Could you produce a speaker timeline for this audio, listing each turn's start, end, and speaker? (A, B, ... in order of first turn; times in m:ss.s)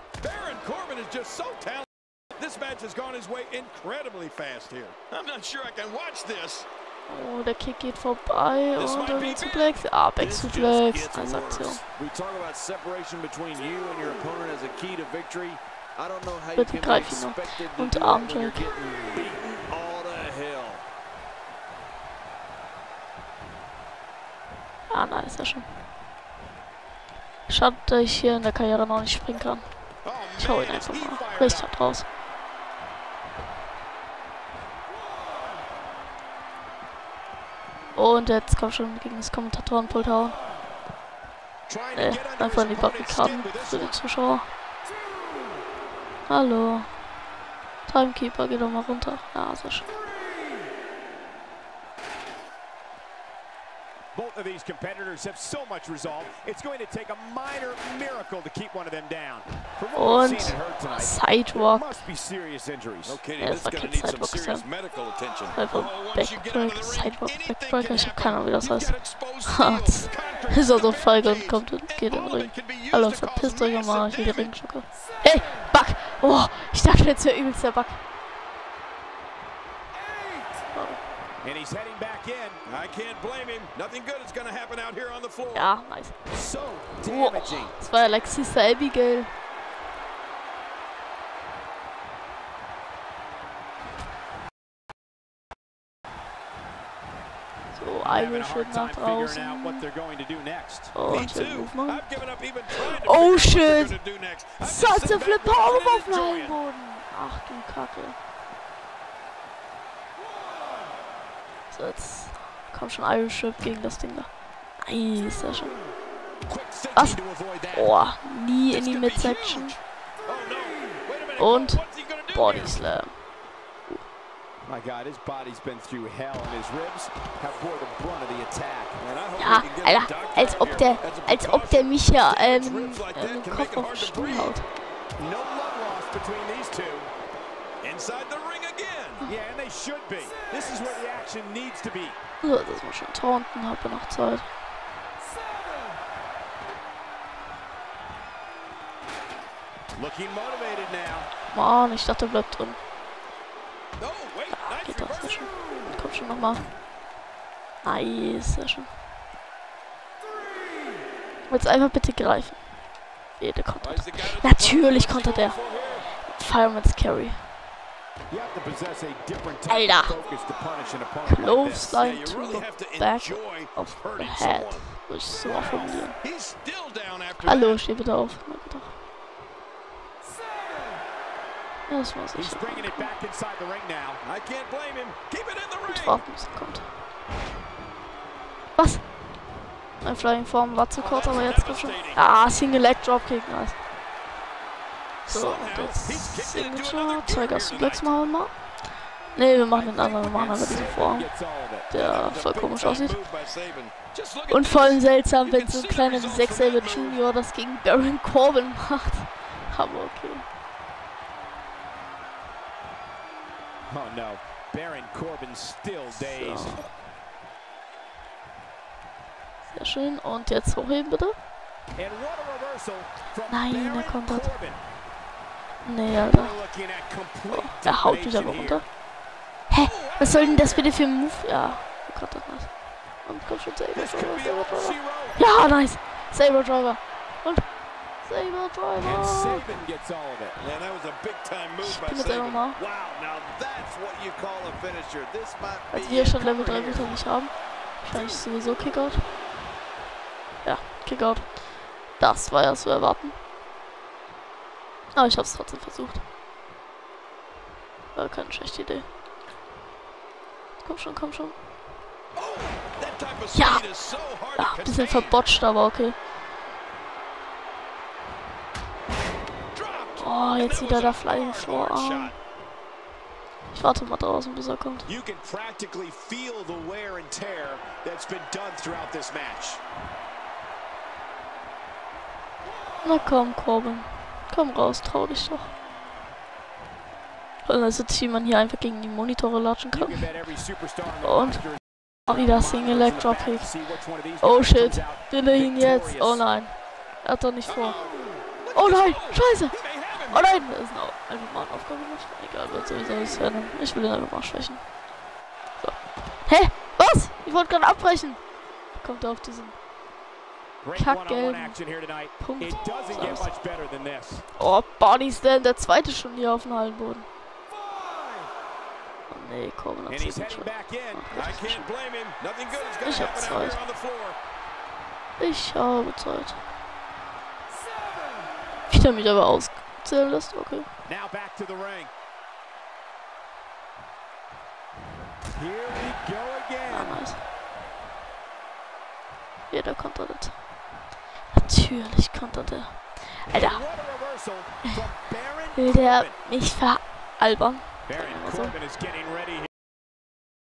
0:00.2-0:06.7 A
0:07.1-0:11.8 B
0:08.8-0:20.8 A
0:16.6-0:18.7 B
0:24.9-0:25.7 B
0:27.5-0:29.6 B
0:30.0-0:31.1 A
0:30.4-0:32.1 B
0:31.2-0:31.7 C
0:38.0-0:40.4 B
0:41.7-0:44.0 C
0:41.9-0:44.5 B
0:46.3-0:46.9 B
0:47.9-0:49.9 B
0:54.1-1:03.2 C
1:00.0-1:02.0 B
1:03.0-1:14.6 A
1:03.4-1:04.7 B
1:05.5-1:18.0 B
1:20.0-1:20.5 A
1:20.7-1:21.0 B
1:21.4-1:22.6 C
1:22.6-1:25.7 A
1:25.5-1:26.2 B
1:26.3-1:27.8 C
1:27.0-1:29.3 B
1:37.7-1:39.8 B
1:38.0-1:41.0 C
1:40.9-1:44.0 B
1:41.1-1:46.6 A
1:44.6-1:48.2 B
1:51.7-1:54.3 B
1:54.8-1:55.7 B
1:56.5-1:57.9 A
1:56.9-1:57.2 B
1:57.7-1:59.8 B
1:58.7-2:02.8 A
2:01.4-2:03.2 B
2:04.7-2:09.0 C
2:09.0-2:14.6 A
2:09.4-2:14.7 B
2:15.2-2:17.1 C
2:17.8-2:19.2 A
2:19.2-2:22.2 C
2:22.4-2:24.5 B
2:30.0-2:31.3 C
2:31.5-2:32.8 B
2:34.0-2:35.5 A
2:34.5-2:36.6 B
2:37.8-2:38.9 B
2:41.5-2:42.6 B
2:43.4-2:47.5 B
2:43.8-2:46.1 A
2:48.3-2:52.0 C
2:49.7-2:50.2 B
2:51.2-2:56.2 B
2:52.0-2:57.8 A
2:57.4-2:59.0 B
3:01.9-3:03.1 B
3:02.4-3:04.2 C
3:04.2-3:06.2 A
3:05.9-3:06.9 B
3:08.8-3:09.0 B
3:10.0-3:13.8 B
3:11.0-3:12.2 A
3:15.2-3:18.6 B
3:15.3-3:18.2 A
3:19.3-3:21.3 B
3:19.7-3:21.0 A
3:20.6-3:22.0 C
3:21.9-3:23.2 B
3:21.9-3:27.2 A
3:24.5-3:30.4 B
3:33.9-3:36.8 C
3:36.2-3:36.9 B
3:39.7-3:41.4 B
3:42.0-3:44.8 C
3:43.5-3:44.5 B
3:45.8-3:46.6 B
3:46.3-3:48.8 C
3:47.5-3:48.9 B
3:49.7-3:52.7 B
3:49.8-3:50.9 A
3:53.2-3:57.6 B
3:53.9-3:55.4 A
3:58.2-3:59.8 B
3:59.0-4:00.6 C
4:00.6-4:07.2 A
4:01.8-4:02.8 B
4:05.9-4:09.2 B
4:08.1-4:08.5 A
4:10.6-4:13.4 B
4:15.1-4:16.2 B
4:18.2-4:19.1 B
4:20.8-4:21.6 B
4:22.4-4:25.4 A
4:23.5-4:23.9 B
4:24.6-4:26.2 B
4:29.7-4:32.4 A
4:30.2-4:32.4 B
4:33.7-4:35.1 B
4:35.1-4:39.8 C
4:43.0-4:45.7 B
4:47.6-4:50.4 B
4:49.9-4:56.5 C
4:51.2-4:53.7 B
4:54.4-4:58.0 B
4:57.6-5:00.6 A
4:58.7-5:04.8 B
5:05.8-5:08.4 B
5:09.0-5:09.8 B
5:10.8-5:14.4 C
5:11.0-5:11.8 B
5:12.4-5:13.5 B
5:14.6-5:17.3 B
5:17.8-5:18.5 A
5:19.3-5:22.0 B
5:20.1-5:21.3 C
5:21.3-5:24.4 A
5:23.0-5:23.8 B
5:25.4-5:26.6 B
5:28.9-5:30.9 B
5:31.1-5:32.1 C
5:35.5-5:37.2 C
5:36.9-5:37.5 B
5:39.7-5:40.6 B
5:41.5-5:43.8 B
5:43.5-5:46.4 C
5:45.8-5:48.8 B
5:48.1-5:49.7 C